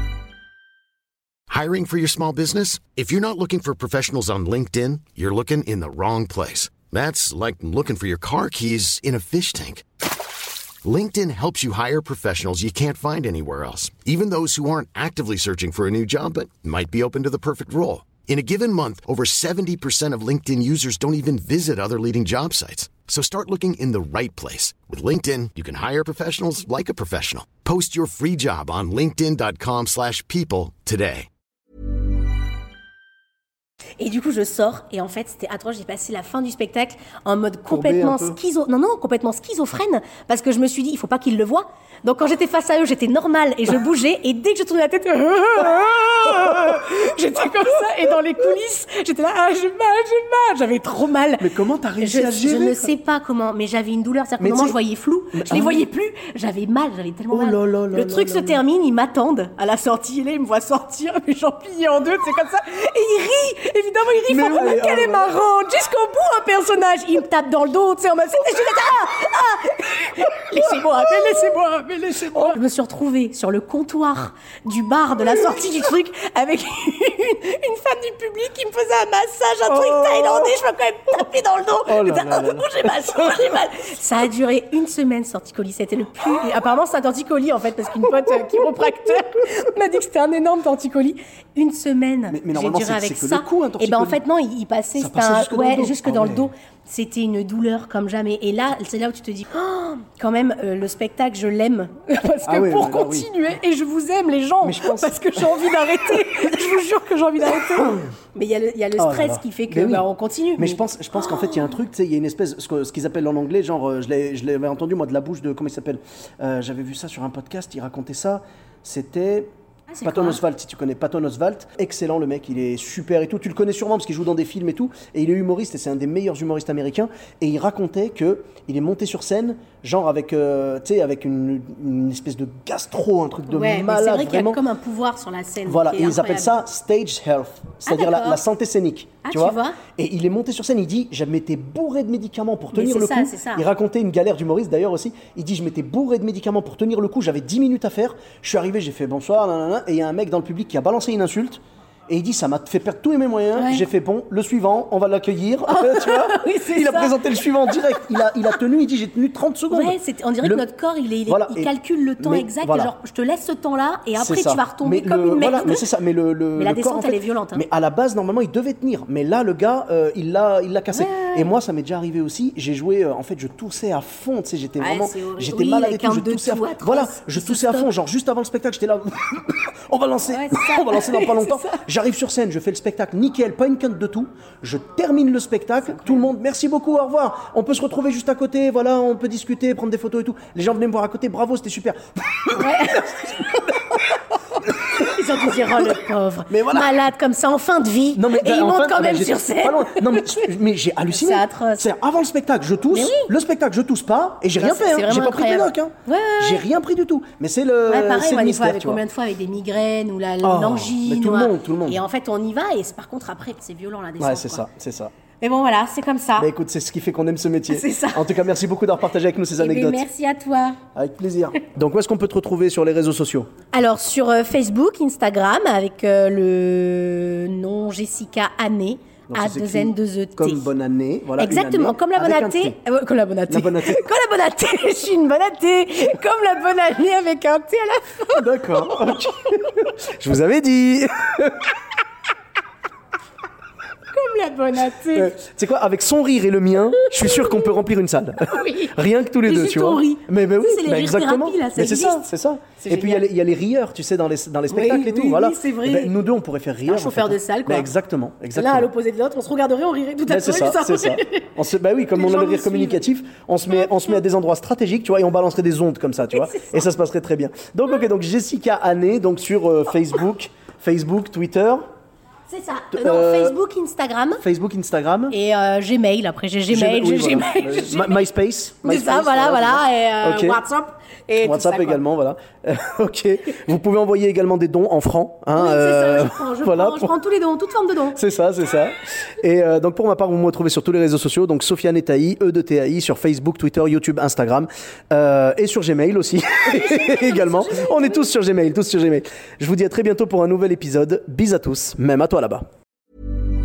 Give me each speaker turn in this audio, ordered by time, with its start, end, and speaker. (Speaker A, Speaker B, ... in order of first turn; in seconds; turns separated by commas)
Speaker A: 1.5-9.8, Speaker A: 10.8-31.3, Speaker B: 34.0-51.5, Speaker C: 37.7-38.4, Speaker C: 51.4-52.9, Speaker B: 52.0-111.6, Speaker C: 54.4-54.8, Speaker C: 55.3-55.8, Speaker C: 57.3-58.6, Speaker C: 64.3-65.3, Speaker C: 79.7-80.5, Speaker C: 81.9-83.3, Speaker C: 92.3-94.2, Speaker C: 95.0-96.5, Speaker C: 102.5-103.3, Speaker C: 104.6-105.7, Speaker C: 109.0-110.1, Speaker C: 110.6-119.5, Speaker B: 119.9-120.4, Speaker C: 120.0-134.6, Speaker B: 133.5-136.6, Speaker C: 135.7-160.7, Speaker B: 137.8-138.4, Speaker B: 139.2-139.8, Speaker B: 142.7-143.7, Speaker B: 153.6-153.8, Speaker B: 155.7-157.2, Speaker B: 157.7-158.2, Speaker B: 159.7-165.8, Speaker C: 161.3-162.9, Speaker C: 164.2-193.3, Speaker B: 166.6-167.7, Speaker B: 170.9-171.5, Speaker B: 174.8-177.9, Speaker B: 180.3-181.8, Speaker B: 192.6-193.7, Speaker B: 194.9-200.5, Speaker C: 196.5-197.0, Speaker C: 198.2-209.0, Speaker B: 201.1-201.9, Speaker B: 202.9-203.3, Speaker B: 204.6-206.7, Speaker B: 207.9-214.6, Speaker C: 210.4-212.0, Speaker C: 214.2-215.1, Speaker B: 215.4-216.5, Speaker C: 216.4-220.1, Speaker B: 217.7-218.4, Speaker B: 219.6-220.8, Speaker C: 220.9-223.5, Speaker B: 223.7-230.7, Speaker C: 229.3-232.8, Speaker B: 231.4-238.5, Speaker C: 233.5-234.1, Speaker C: 238.3-241.7, Speaker B: 244.1-245.3, Speaker C: 245.0-258.9, Speaker B: 247.0-247.6, Speaker B: 248.5-253.3, Speaker B: 254.7-256.1, Speaker B: 256.9-257.9, Speaker B: 258.5-261.6, Speaker C: 260.3-271.8, Speaker B: 262.1-263.1, Speaker B: 263.7-264.2, Speaker B: 266.3-266.9, Speaker B: 272.5-274.4, Speaker C: 272.9-273.6, Speaker C: 274.4-275.4, Speaker B: 275.3-278.3, Speaker C: 276.7-280.6, Speaker B: 278.8-282.0, Speaker C: 281.4-287.2, Speaker B: 285.5-288.2, Speaker C: 288.1-302.6, Speaker B: 296.7-298.2